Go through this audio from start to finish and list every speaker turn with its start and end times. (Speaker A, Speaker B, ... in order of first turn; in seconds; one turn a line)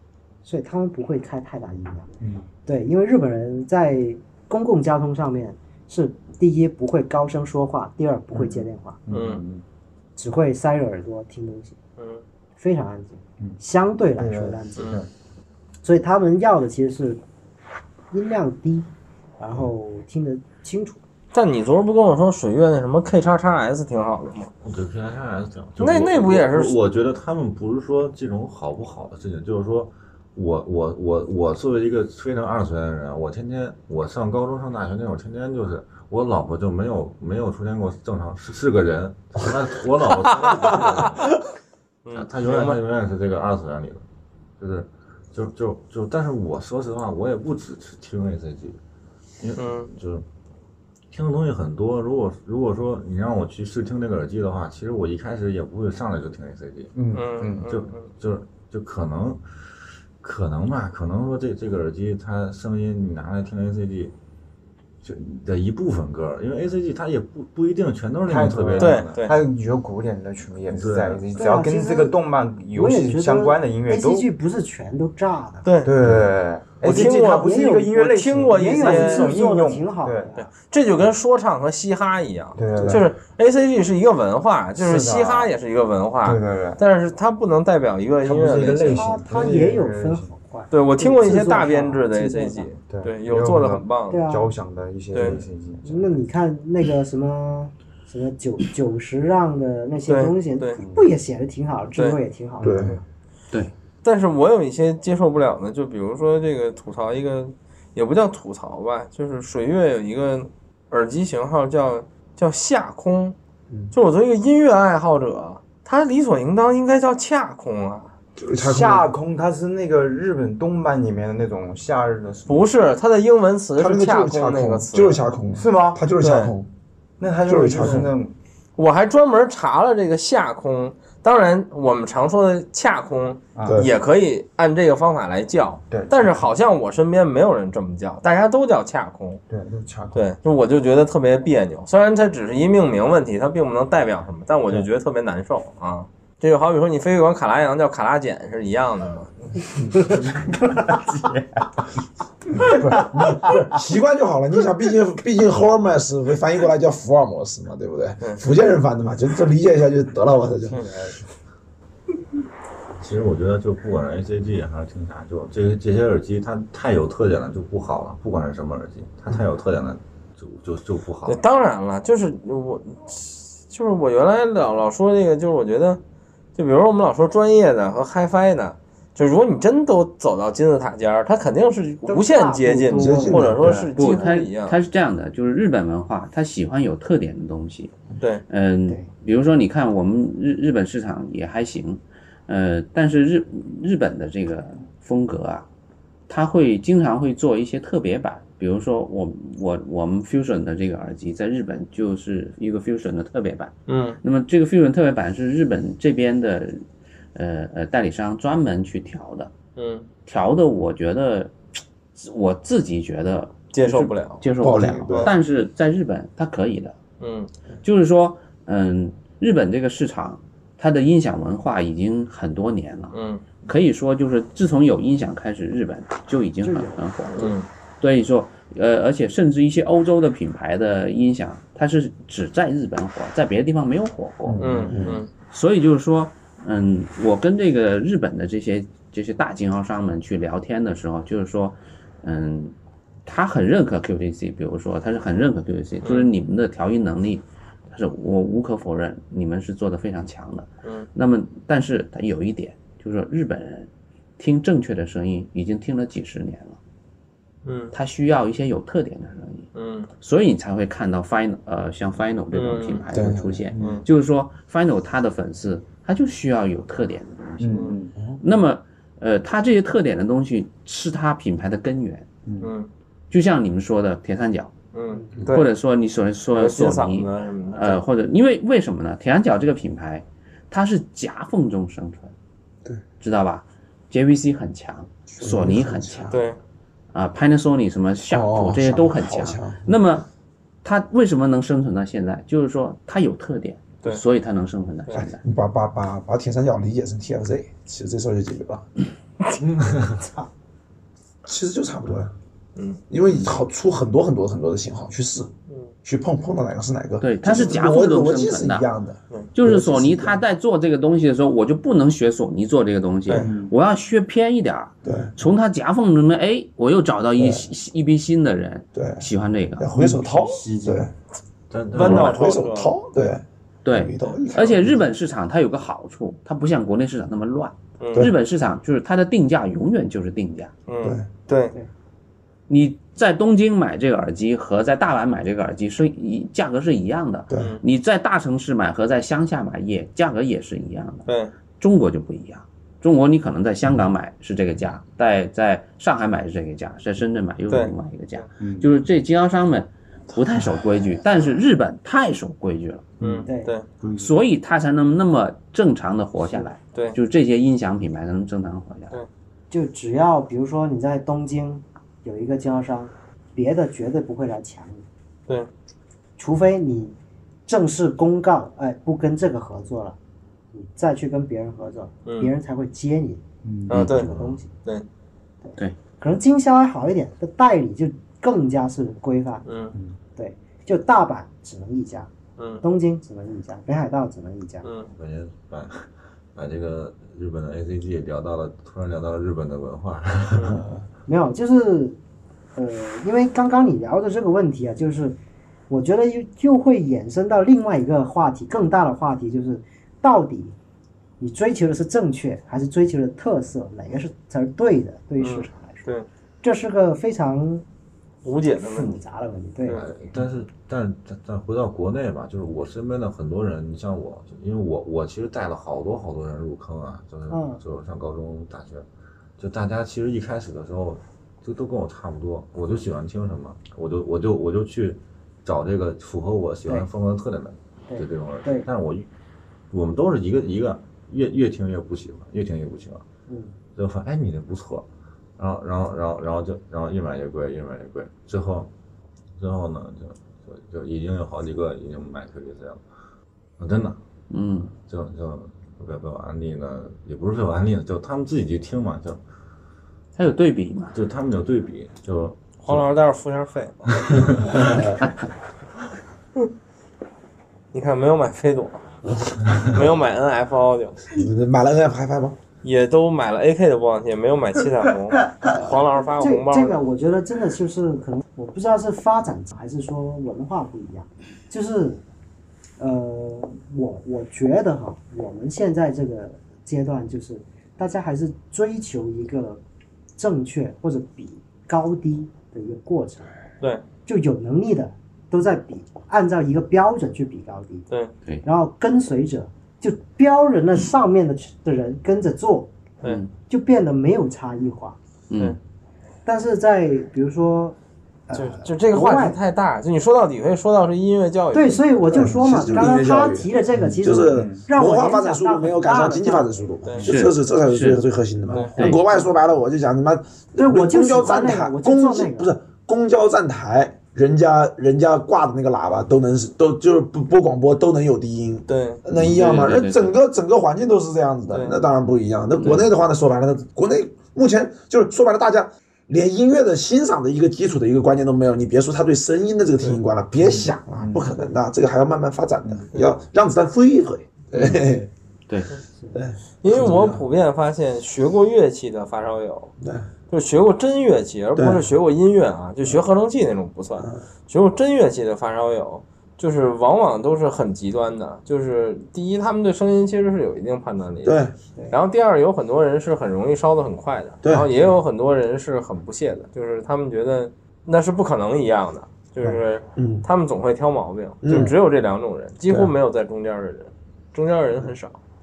Speaker A: 0.4-2.1
Speaker B: 2.2-2.5
Speaker A: 2.6-9.0
Speaker B: 8.3-9.6
Speaker C: 9.1-9.4
Speaker A: 10.2-11.8
Speaker C: 12.0-12.2
Speaker A: 12.6-15.0
Speaker B: 14.2-15.1
Speaker A: 15.8-17.2
Speaker A: 18.1-21.0
Speaker C: 21.3-24.5
Speaker D: 24.6-41.3
Speaker C: 25.8-26.8
Speaker C: 40.4-41.1
Speaker C: 42.0-42.8
Speaker D: 42.1-44.0
Speaker D: 44.6-48.8
Speaker D: 49.4-50.2
Speaker C: 49.6-49.9
Speaker D: 51.1-56.9
Speaker B: 56.9-57.7
Speaker C: 57.1-58.1
Speaker D: 57.7-59.4
Speaker D: 60.2-64.1
Speaker D: 65.0-69.3
Speaker B: 68.2-74.3
Speaker C: 68.8-69.3
Speaker D: 70.7-71.3
Speaker A: 71.3-72.2
Speaker A: 72.7-75.7
Speaker C: 75.6-75.9
Speaker B: 75.8-80.3
Speaker C: 76.8-79.3
Speaker A: 76.8-80.5
Speaker C: 80.3-89.0
Speaker B: 82.5-83.0
Speaker E: 82.7-83.0
Speaker B: 84.8-85.5
Speaker B: 86.2-86.8
Speaker B: 88.2-90.4
Speaker A: 88.8-92.7
Speaker C: 90.7-94.2
Speaker B: 92.8-96.2
Speaker A: 94.1-94.5
Speaker C: 95.1-95.4
Speaker A: 95.8-103.0
Speaker C: 100.1-100.8
Speaker B: 100.8-101.1
Speaker B: 102.6-103.0
Speaker E: 102.6-102.9
Speaker C: 104.0-113.3
Speaker C: 113.9-118.1
Speaker E: 118.4-119.1
Speaker B: 118.5-122.7
Speaker C: 122.5-125.2
Speaker E: 123.8-126.7
Speaker B: 125.5-126.0
Speaker C: 126.2-126.5
Speaker B: 127.2-128.3
Speaker E: 127.5-128.1
Speaker C: 128.8-139.4
Speaker B: 133.6-133.9
Speaker B: 135.9-136.4
Speaker B: 139.5-140.2
Speaker C: 140.1-149.5
Speaker B: 150.1-151.8
Speaker B: 152.5-153.6
Speaker E: 152.6-160.8
Speaker B: 160.7-161.2
Speaker D: 163.0-171.4
Speaker C: 171.2-176.0
Speaker C: 176.6-184.8
Speaker A: 182.0-183.7
Speaker E: 183.0-183.9
Speaker B: 183.5-183.9
Speaker F: 184.0-187.9
Speaker F: 188.5-195.7
Speaker F: 196.3-209.5
Speaker C: 203.9-204.2
Speaker C: 209.8-210.1
Speaker F: 210.2-211.5
Speaker F: 212.2-217.0
Speaker C: 213.7-214.4
Speaker E: 214.6-215.3
Speaker B: 214.7-215.3
Speaker C: 217.2-217.5
Speaker F: 217.8-234.9
Speaker C: 223.1-223.4
Speaker A: 226.6-227.4
Speaker C: 227.3-227.7
Speaker B: 234.4-235.2
Speaker C: 234.6-235.3
Speaker E: 234.9-235.2
Speaker F: 235.5-242.7
Speaker F: 243.2-256.8
Speaker C: 246.0-246.3
Speaker C: 257.6-257.9
Speaker F: 257.9-272.2
Speaker C: 259.7-260.1
Speaker C: 262.5-263.0
Speaker E: 263.1-263.7
Speaker B: 263.7-264.0
Speaker C: 263.8-264.0
Speaker B: 267.6-268.1
Speaker B: 272.4-272.7
Speaker C: 272.6-272.9
Speaker F: 273.3-274.7
Speaker C: 274.9-275.7
Speaker F: 275.5-282.3
Speaker C: 276.5-278.0
Speaker F: 283.2-286.3
Speaker E: 285.4-286.4
Speaker C: 286.3-286.6
Speaker F: 287.1-290.3
Speaker E: 288.3-289.9
Speaker F: 290.8-295.4
Speaker E: 295.2-298.9
Speaker A: 300.2-300.5
Speaker E: 301.4-302.3
Speaker E: 303.1-305.5
Speaker E: 306.0-310.4
Speaker F: 307.2-308.9
Speaker F: 309.5-319.9
Speaker B: 313.4-313.7
Speaker E: 315.0-315.3
Speaker E: 317.4-317.7
Speaker E: 318.9-321.1
Speaker B: 319.9-321.1
Speaker D: 321.7-322.3
Speaker C: 321.9-322.9
Speaker F: 322.0-322.2
Speaker E: 322.0-325.1
Speaker F: 323.8-330.7
Speaker C: 328.0-328.3
Speaker C: 330.9-331.7
Speaker F: 332.7-341.3
Speaker E: 337.5-337.7
Speaker C: 337.6-337.8
Speaker C: 341.3-341.5
Speaker F: 341.8-353.1
Speaker C: 347.7-348.4
Speaker B: 348.6-348.9
Speaker B: 353.2-353.5
Speaker C: 353.2-353.8
Speaker A: 353.5-353.7
Speaker B: 354.0-354.3
Speaker F: 354.1-359.2
Speaker A: 359.7-365.0
Speaker A: 366.4-370.1
Speaker A: 370.7-373.4
Speaker C: 372.2-372.5
Speaker B: 373.6-374.6
Speaker C: 373.9-374.3
Speaker A: 374.1-374.7
Speaker A: 375.6-379.6
Speaker C: 379.6-379.9
Speaker A: 380.4-382.3
Speaker C: 382.6-382.8
Speaker A: 382.8-384.9
Speaker C: 384.8-385.1
Speaker D: 385.1-390.8
Speaker C: 390.5-390.8
Speaker A: 391.3-392.2
Speaker A: 392.7-395.4
Speaker A: 395.9-400.8
Speaker A: 401.4-406.1
Speaker C: 405.4-406.2
Speaker A: 406.6-407.8
Speaker C: 408.4-409.1
Speaker A: 408.8-410.0
Speaker D: 409.9-419.1
Speaker A: 417.5-417.8
Speaker D: 419.6-429.3
Speaker A: 428.1-428.9
Speaker D: 429.9-433.2
Speaker A: 433.5-433.7
Speaker D: 433.9-435.1
Speaker D: 435.6-438.9
Speaker D: 439.6-443.0
Speaker D: 443.8-444.2
Speaker F: 444.5-444.9
Speaker D: 445.0-449.4
Speaker F: 450.4-451.1
Speaker D: 451.1-453.1
Speaker C: 452.8-454.2
Speaker D: 454.3-455.1
Speaker C: 457.9-459.0
Speaker C: 459.8-461.2
Speaker E: 461.3-462.6
Speaker C: 462.8-467.0
Speaker A: 465.7-472.2
Speaker A: 473.0-479.8
Speaker A: 480.4-483.5
Speaker A: 484.2-488.1
Speaker A: 488.6-492.9
Speaker A: 493.7-495.1
Speaker F: 495.5-495.8
Speaker A: 496.4-498.0
Speaker A: 498.5-499.6
Speaker C: 498.5-502.4
Speaker A: 501.7-506.8
Speaker E: 502.3-535.3
Speaker B: 504.0-504.8
Speaker F: 507.2-508.2
Speaker C: 508.7-508.9
Speaker F: 509.0-509.2
Speaker A: 510.8-512.7
Speaker C: 518.9-519.2
Speaker F: 519.3-520.3
Speaker C: 521.7-522.0
Speaker F: 522.8-523.1
Speaker B: 530.8-531.4
Speaker F: 534.7-535.1
Speaker E: 536.3-537.4
Speaker C: 536.8-539.9
Speaker E: 540.0-540.2
Speaker C: 540.5-551.6
Speaker E: 541.8-542.0
Speaker E: 551.4-551.7
Speaker C: 552.1-565.4
Speaker E: 554.6-554.9
Speaker E: 559.6-560.5
Speaker E: 561.6-562.0
Speaker E: 562.9-563.1